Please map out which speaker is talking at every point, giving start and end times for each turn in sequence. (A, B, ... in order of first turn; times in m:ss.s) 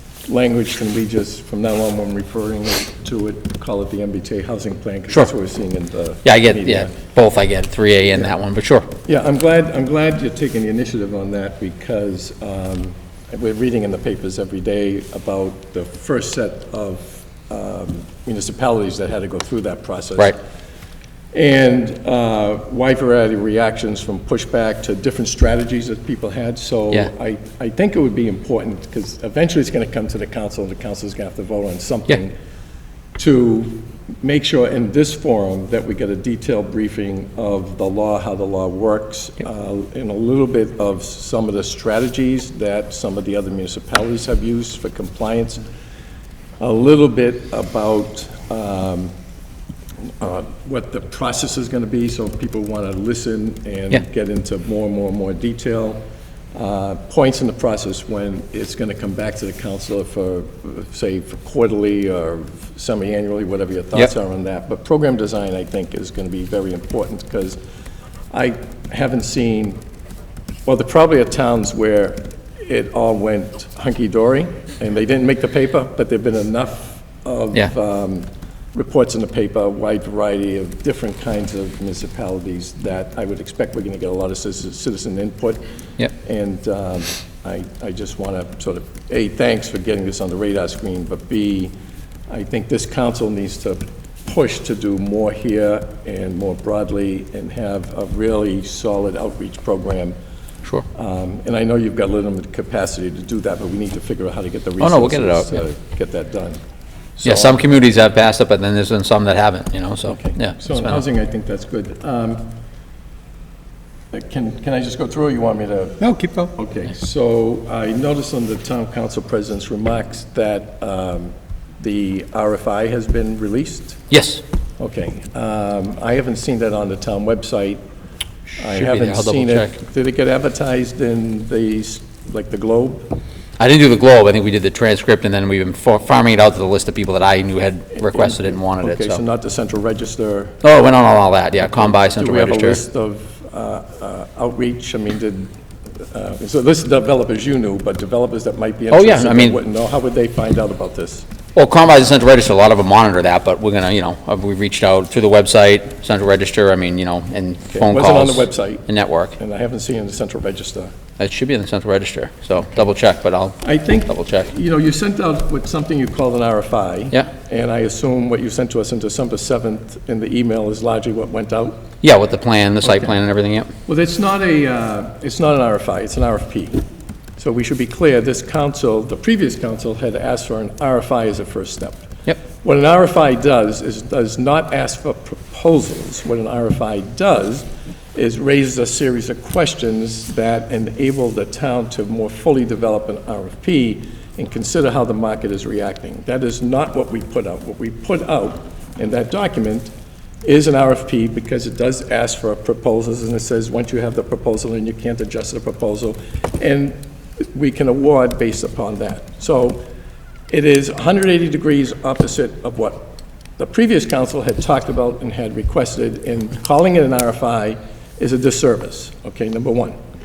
0:00.3-0:07.0 A
0:06.2-0:08.9 B
0:09.0-0:20.4 A
0:21.3-0:32.3 A
0:33.2-0:45.6 A
0:46.6-0:49.1 A
0:50.2-0:56.0 A
0:56.6-1:07.6 A
1:08.3-1:09.8 A
1:10.7-1:31.7 A
1:32.3-1:40.2 A
1:40.9-1:46.6 A
1:44.8-1:45.6 B
1:47.2-1:47.6 A
1:47.2-1:51.0 B
1:50.1-1:52.5 A
1:54.1-2:04.0 A
2:04.1-2:04.4 B
2:04.8-2:07.8 A
2:08.6-2:13.1 A
2:08.7-2:09.8 B
2:13.6-2:19.2 B
2:18.0-2:20.6 A
2:20.6-2:22.8 B
2:21.7-2:31.3 A
2:28.9-2:29.6 B
2:31.6-2:39.3 B
2:37.7-2:41.0 A
2:41.2-2:44.5 B
2:43.6-2:51.8 A
2:52.0-2:53.7 B
2:53.9-2:56.8 A
2:57.4-3:19.9 A
3:20.4-3:27.0 A
3:27.5-3:29.8 A
3:30.5-3:40.0 A